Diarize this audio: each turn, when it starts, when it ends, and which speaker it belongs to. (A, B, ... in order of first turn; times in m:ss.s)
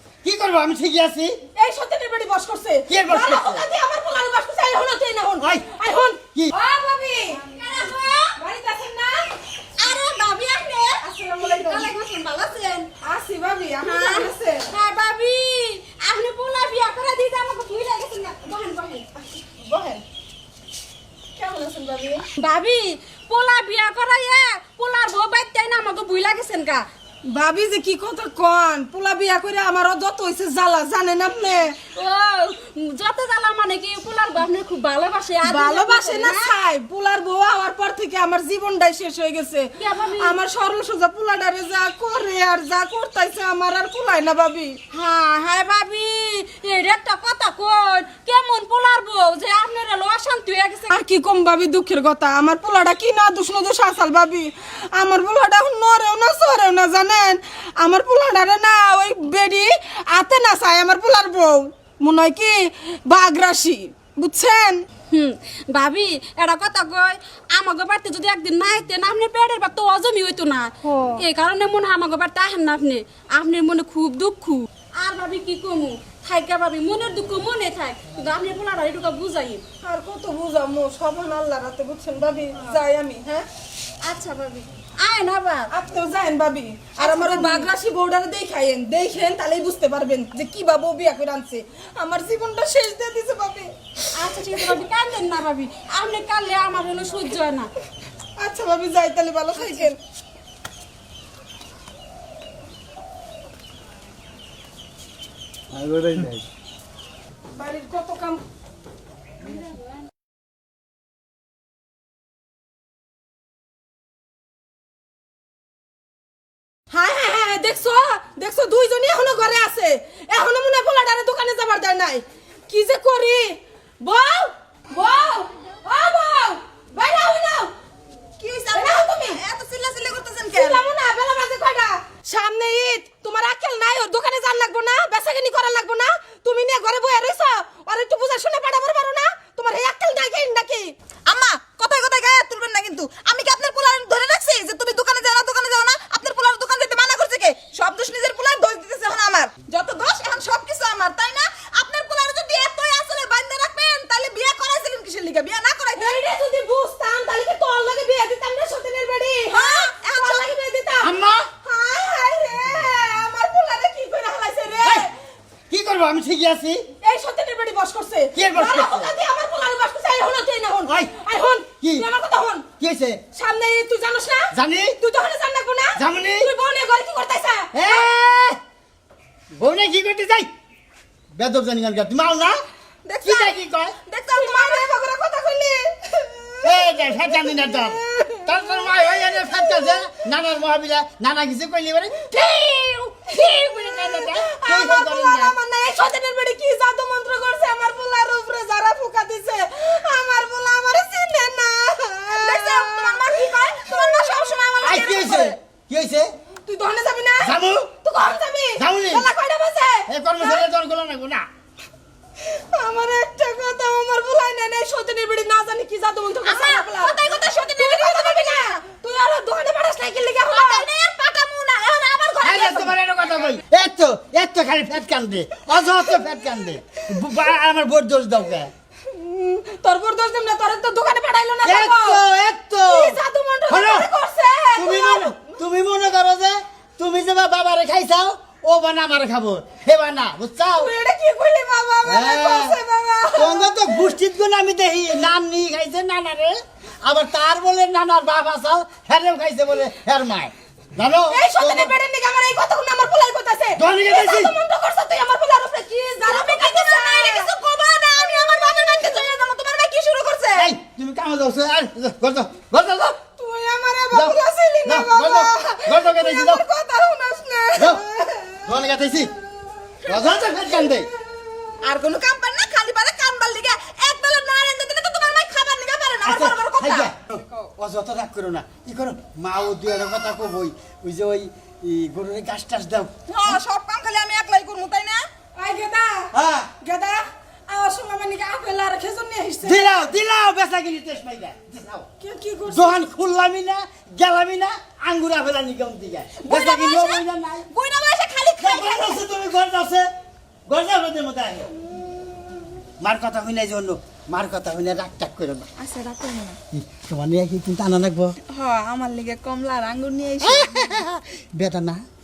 0:00.2-0:01.4 A
0:01.6-0:07.4 B
0:02.9-0:03.7 A
0:07.3-0:08.3 C
0:08.3-0:09.3 B
0:09.8-0:12.9 C
0:11.0-0:11.9 B
0:13.0-0:14.7 B
0:13.8-0:19.1 C
0:19.4-0:20.0 B
0:21.3-0:22.2 B
0:22.4-0:26.9 C
0:27.2-0:31.8 B
0:31.9-0:36.5 C
0:35.4-0:44.8 B
0:39.8-0:40.4 C
0:44.9-0:51.0 C
0:50.9-1:04.8 B
1:05.1-1:19.6 C
1:10.8-1:11.2 B
1:19.8-1:23.4 B
1:24.0-1:24.7 D
1:25.0-1:25.7 C
1:25.7-1:34.0 B
1:27.0-1:27.6 D
1:27.3-1:27.6 C
1:34.1-1:37.7 C
1:38.4-1:40.0 B
1:39.6-1:39.8 C
1:45.7-1:46.4 A
1:47.5-1:48.4 B
1:56.9-2:07.7 B
2:08.4-2:10.8 D
2:08.7-2:09.4 B
2:10.5-2:20.9 B
2:21.3-2:36.2 D
2:36.0-2:45.1 B
2:39.5-2:40.5 D
2:41.0-2:41.5 A
2:45.7-2:46.9 A
2:47.0-2:52.7 B
2:48.3-2:49.1 A
2:50.9-2:51.1 A
2:51.8-2:52.1 A
2:52.8-2:53.2 A
2:53.3-2:58.0 B
2:54.5-2:55.0 A
2:56.0-2:56.5 A
2:57.7-2:58.6 A
2:59.5-3:00.5 A
3:01.3-3:02.6 A
3:03.0-3:04.9 D
3:03.2-3:03.9 A
3:04.3-3:06.7 B
3:06.6-3:12.3 A
3:12.3-3:14.3 C
3:13.9-3:15.6 A
3:14.0-3:25.5 B
3:22.3-3:25.3 D
3:24.8-3:26.3 A
3:26.6-3:30.6 B
3:27.4-3:27.9 A
3:28.8-3:29.3 A
3:30.1-3:31.4 A
3:32.4-3:40.9 B
3:36.4-3:38.8 D
3:40.5-3:42.9 D
3:42.4-3:48.7 A
3:49.1-3:52.2 B
3:51.6-3:54.1 A
3:52.8-3:55.4 B
3:54.7-4:00.9 A
4:00.7-4:04.1 B
4:02.0-4:02.8 A
4:03.3-4:11.9 A
4:11.3-4:17.5 B
4:13.8-4:14.5 A
4:16.2-4:20.7 D
4:20.5-4:23.2 A
4:23.2-4:26.0 B
4:24.1-4:26.6 A
4:26.0-4:28.0 D
4:27.7-4:28.0 A
4:28.2-4:28.6 B
4:28.6-4:29.3 A
4:30.0-4:31.1 A
4:31.8-4:37.1 D
4:36.2-4:43.6 A
4:43.3-4:45.2 D
4:45.6-4:50.0 B
4:46.3-4:46.7 A
4:49.6-4:52.1 A
4:52.2-4:53.0 B
4:52.7-4:57.7 A
4:56.4-4:59.2 D
4:58.6-5:00.1 A
5:00.7-5:01.7 A
5:03.0-5:05.7 A
5:05.8-5:06.6 D
5:06.7-5:08.4 A
5:08.5-5:11.0 D
5:10.4-5:12.0 A